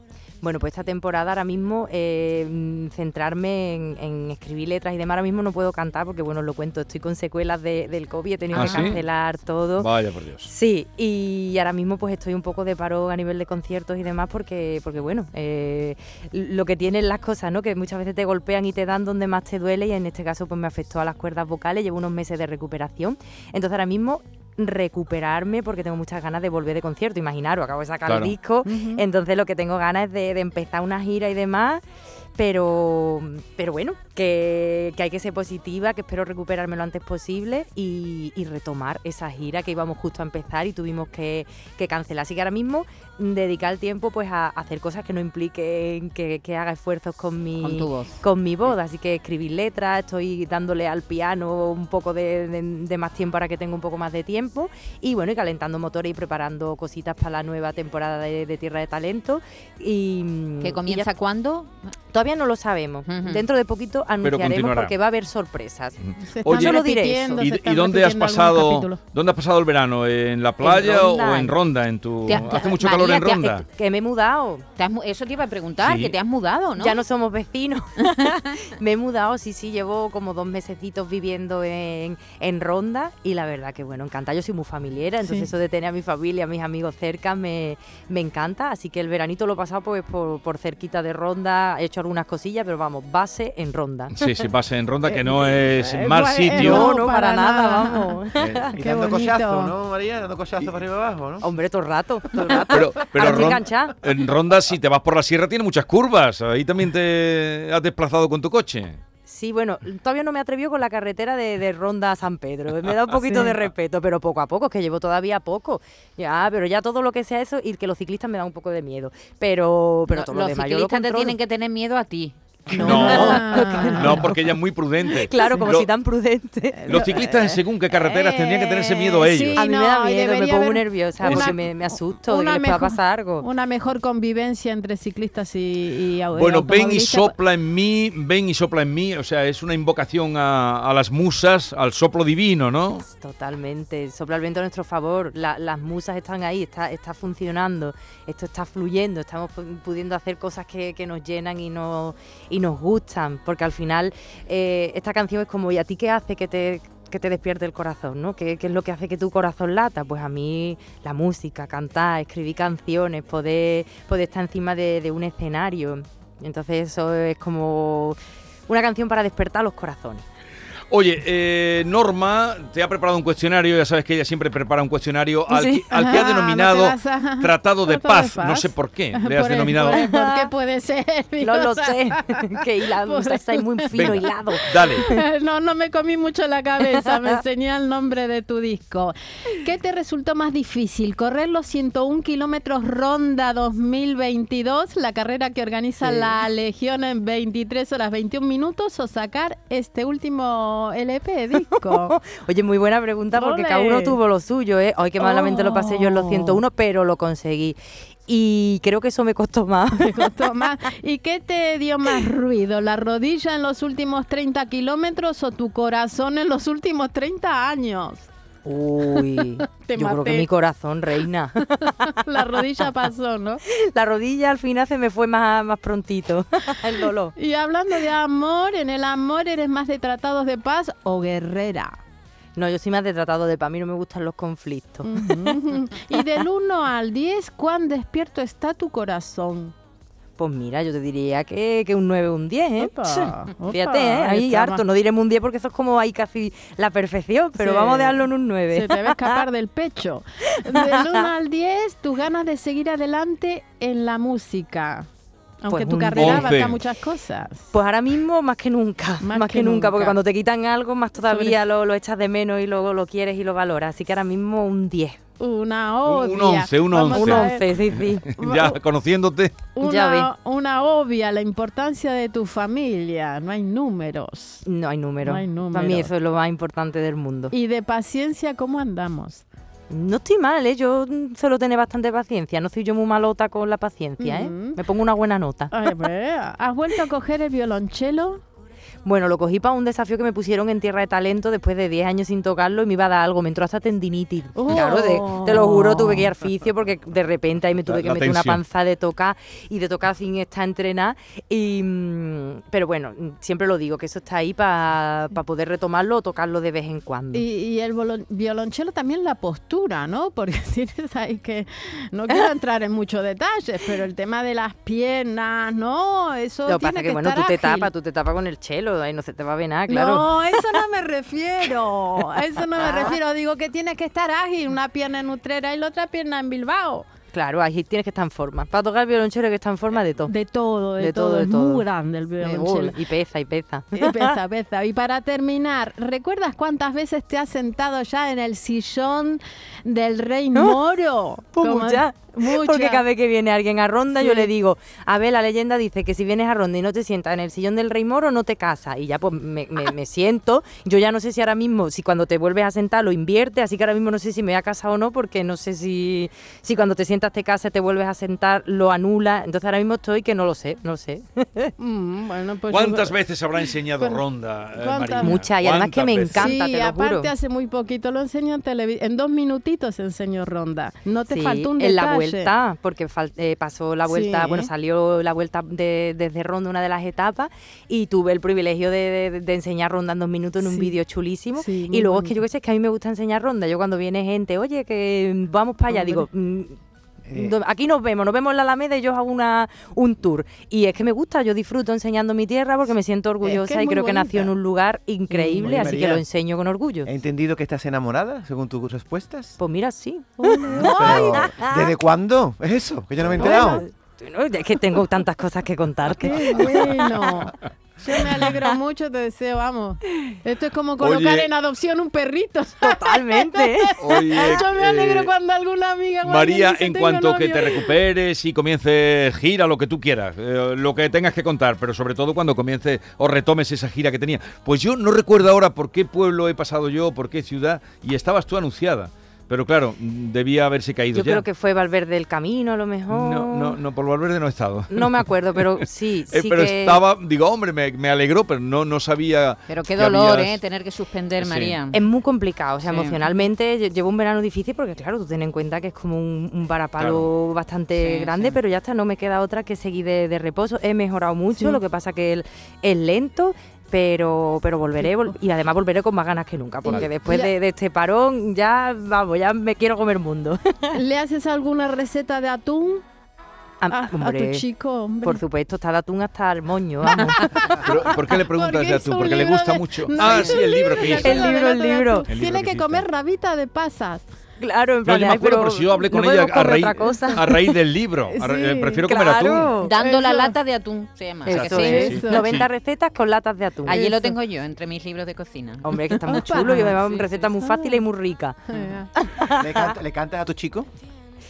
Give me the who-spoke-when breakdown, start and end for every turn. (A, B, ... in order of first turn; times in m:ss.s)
0:00.4-0:09.9 A
0:08.5-0:09.0 B
0:08.5-0:09.0 C
0:09.8-0:10.5 B
0:10.4-0:31.8 A
0:28.0-0:28.4 B
0:28.6-0:29.0 D
0:32.4-1:01.1 A
0:47.6-0:48.2 C
1:00.6-1:01.7 C
1:02.1-1:07.4 A
1:03.1-1:03.4 C
1:04.2-1:04.9 B
1:06.0-1:06.8 B
1:06.2-1:09.0 D
1:07.4-1:13.6 B
1:10.6-1:11.6 A
1:12.3-1:13.3 C
1:12.3-1:14.6 A
1:14.8-1:17.0 C
1:15.8-1:16.1 B
1:16.8-1:34.2 A
1:25.2-1:25.5 D
1:34.1-1:36.8 B
1:35.1-1:39.7 D
1:36.6-1:38.6 A
1:38.4-1:41.4 E
1:41.4-1:44.0 A
1:42.6-1:49.0 B
1:49.2-2:01.4 A
1:53.2-1:53.6 D
2:00.1-2:02.4 C
2:02.7-2:04.6 A
2:02.8-2:05.9 B
2:02.8-2:04.2 D
2:02.9-2:03.4 C
2:05.1-2:07.6 A
2:05.4-2:05.7 D
2:06.8-2:17.4 D
2:06.9-2:09.6 B
2:09.5-2:13.5 A
2:16.3-2:23.0 B
2:23.0-2:50.2 A
2:50.9-3:00.0 B
2:55.5-2:55.9 A
2:55.9-3:22.2 D
2:59.9-3:00.5 A
3:01.4-3:05.1 A
3:03.9-3:05.0 B
3:16.0-3:16.3 A
3:21.7-3:30.3 A
3:23.3-3:24.2 D
3:25.2-3:26.6 D
3:30.0-3:38.3 D
3:38.6-3:41.7 A
3:39.0-3:40.5 D
3:41.1-3:43.6 D
3:43.7-3:47.3 A
3:47.4-3:52.0 D
3:52.6-3:55.2 A
3:55.0-3:59.7 D
4:00.4-4:09.4 A
4:02.8-4:04.8 D
4:07.6-4:15.1 D
4:10.6-4:11.2 A
4:15.6-4:17.7 D
4:15.7-4:16.6 A
4:16.2-4:16.8 B
4:17.7-4:25.2 A
4:19.2-4:20.2 D
4:21.2-4:21.6 D
4:25.4-4:27.6 D
4:26.0-4:29.6 B
4:27.1-4:28.4 A
4:28.4-4:28.7 D
4:29.7-4:34.6 D
4:29.8-4:30.3 A
4:34.6-4:37.5 A
4:35.2-4:36.1 D
4:37.5-4:39.4 D
4:39.9-4:45.7 A
4:44.2-4:44.8 D
4:45.7-4:48.4 D
4:49.0-5:07.4 A
4:54.6-4:56.3 D
4:57.9-4:58.6 B
5:07.3-5:17.9 D
5:16.7-5:20.3 A
5:19.9-5:27.0 D
5:22.8-5:23.2 A
5:27.3-5:30.3 A
5:30.3-5:33.0 D
5:31.0-5:31.8 A
5:32.4-5:34.2 A
5:33.9-5:43.0 D
5:40.5-5:40.8 A
5:41.5-6:01.7 A
5:44.2-5:44.5 D
6:01.8-6:05.4 D
6:02.7-6:06.5 B
6:05.2-6:07.3 A
6:06.3-6:12.5 D
6:11.3-6:26.8 A
6:14.1-6:14.7 D
6:20.6-6:20.9 D
6:21.6-6:22.4 D
6:25.9-6:26.2 D
6:27.2-6:27.5 E
6:27.3-6:37.1 A
6:33.4-6:34.5 D
6:35.3-6:36.2 E
6:37.0-6:39.6 E
6:39.6-6:41.9 A
6:40.4-6:41.5 D
6:40.7-6:43.8 E
6:43.4-6:43.8 D
6:43.4-6:47.4 A
6:46.2-6:58.0 D
6:51.0-6:51.5 B
6:52.8-6:54.6 A
6:54.0-6:55.3 B
6:56.2-7:11.4 B
7:11.1-7:13.8 A
7:13.1-7:20.6 B
7:14.9-7:17.0 A
7:19.7-7:22.0 C
7:21.4-7:21.8 B
7:21.9-7:41.0 A
7:22.8-7:23.4 C
7:27.0-7:27.3 B
7:28.0-7:28.6 C
7:36.9-7:37.5 D
7:40.9-7:43.0 D
7:43.8-7:44.6 A
7:43.9-7:45.4 D
7:45.2-7:47.4 A
7:47.1-7:54.3 D
7:47.7-7:51.5 B
7:51.2-7:52.2 A
7:52.3-7:53.0 B
7:54.6-7:57.8 A
7:55.0-7:59.7 B
7:58.2-7:59.1 D
7:59.0-7:59.9 A
7:59.8-8:02.1 C
8:00.0-8:00.6 D
8:01.4-8:02.7 B
8:01.4-8:04.2 A
8:01.8-8:02.6 D
8:03.8-8:06.2 C
8:03.9-8:04.3 D
8:05.8-8:08.6 A
8:06.3-8:07.0 D
8:06.7-8:07.5 C
8:07.6-8:08.0 D
8:08.7-8:09.1 D
8:08.7-8:09.0 C
8:09.2-8:09.9 A
8:09.5-8:10.9 E